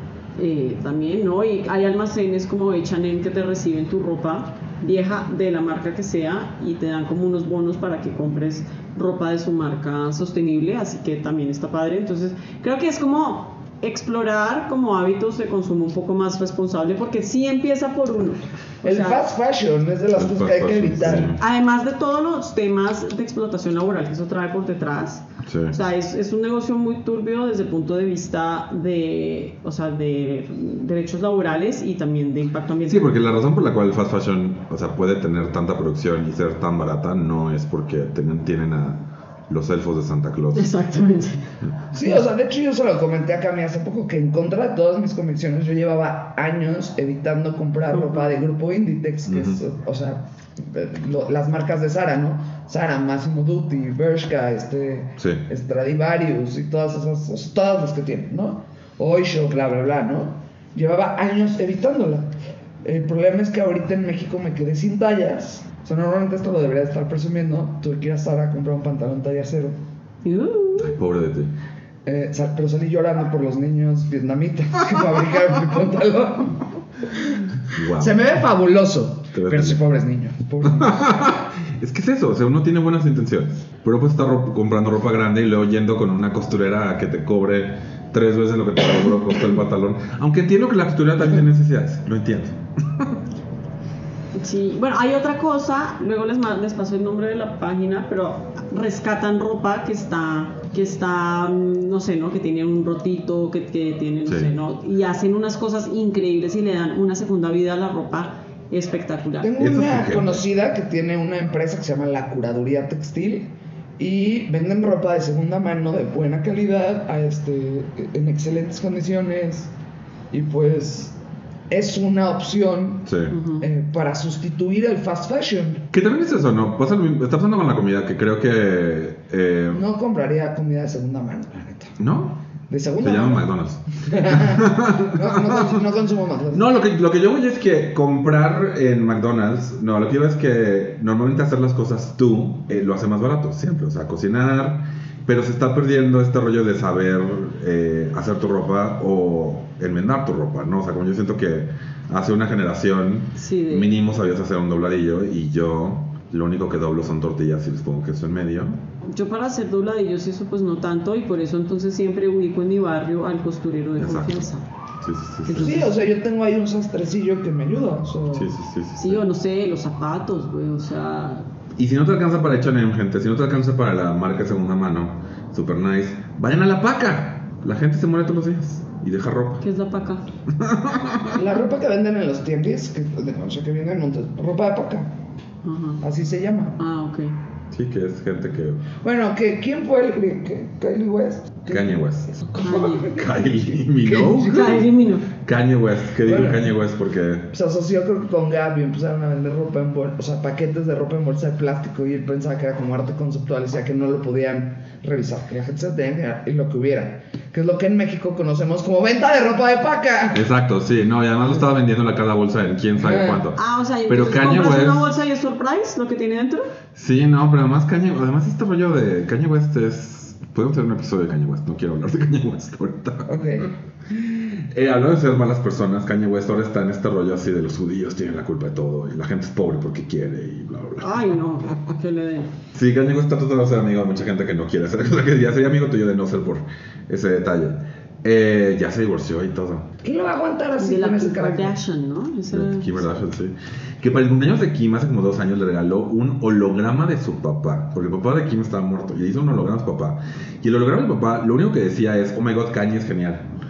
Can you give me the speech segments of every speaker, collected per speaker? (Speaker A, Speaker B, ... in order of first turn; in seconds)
Speaker A: 0.4-19.2, 21.2-33.1, 40.5-41.5, 47.9-48.4, 70.2-71.0, 94.3-109.5, 123.3-123.7, 153.4-154.0, 159.1-164.6, 165.5-165.9, 169.0-171.4, 179.6-180.2, 185.6-186.0, 186.8-187.3, 192.6-193.1, 194.2-195.3, 213.5-216.7, 231.0-232.5, 240.8-243.0
Speaker B: 18.8-21.4, 41.9-62.3, 62.8-69.8, 72.0-81.0, 109.4-119.7, 120.3-121.2, 121.7-125.9, 129.7-131.9, 132.7-133.5, 134.0-136.6, 165.6-168.5, 181.3-185.1, 186.0-186.8, 189.0-193.2, 194.0-194.8, 196.2-196.7, 197.5-210.4, 213.0-213.4, 223.3-223.7, 240.0-241.8
Speaker C: 20.1-21.4, 25.4-25.8, 32.9-40.7, 49.2-49.6, 55.2-55.4, 70.8-71.5, 77.7-78.2, 79.3-79.8, 80.7-93.1, 104.2-104.5, 109.6-110.4, 123.0-123.3, 125.9-129.8, 132.0-132.4, 133.0-135.8, 136.5-158.8, 164.0-165.9, 168.3-169.2, 171.8-179.6, 180.5-181.4, 187.7-188.8, 191.7-197.5, 210.3-215.2, 216.9-223.7, 224.5-231.2, 232.7-239.9, 242.5-253.5